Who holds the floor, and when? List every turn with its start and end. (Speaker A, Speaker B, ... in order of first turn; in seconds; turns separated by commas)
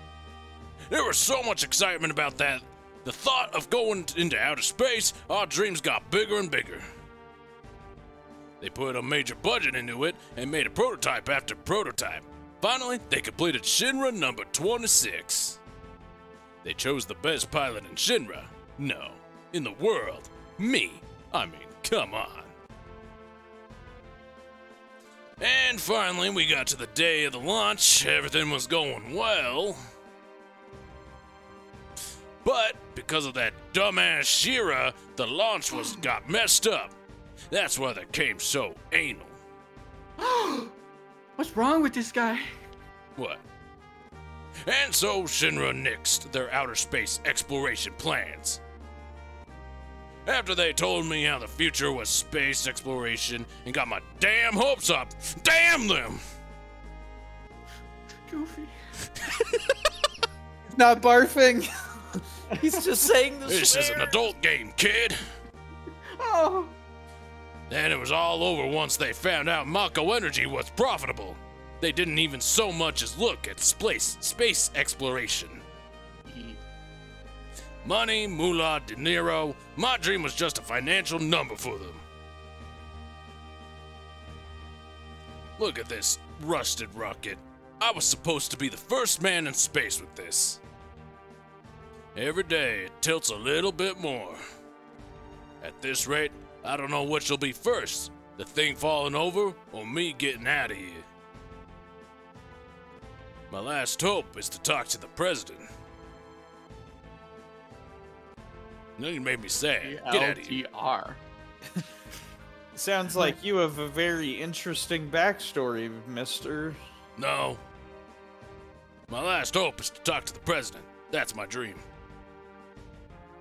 Speaker A: 0.9-6.9, Speaker A: 8.6-15.6, Speaker A: 16.6-22.5, Speaker A: 25.4-29.8, Speaker A: 32.4-36.9, Speaker A: 37.5-39.4, Speaker B: 40.2-40.7, Speaker B: 41.4-42.5, Speaker A: 43.2-43.4, Speaker A: 44.6-48.6, Speaker A: 50.3-56.2, Speaker B: 58.3-58.7, Speaker C: 60.6-64.2, Speaker B: 62.6-62.9, Speaker A: 63.5-65.2, Speaker B: 66.1-66.8, Speaker A: 67.7-75.6, Speaker B: 76.3-76.6, Speaker A: 77.8-82.0, Speaker A: 85.6-90.6, Speaker A: 92.2-94.4, Speaker A: 95.6-101.1, Speaker A: 103.5-105.7, Speaker A: 109.0-110.6, Speaker B: 109.8-111.2, Speaker C: 112.7-116.8, Speaker A: 117.2-117.6, Speaker A: 119.1-121.8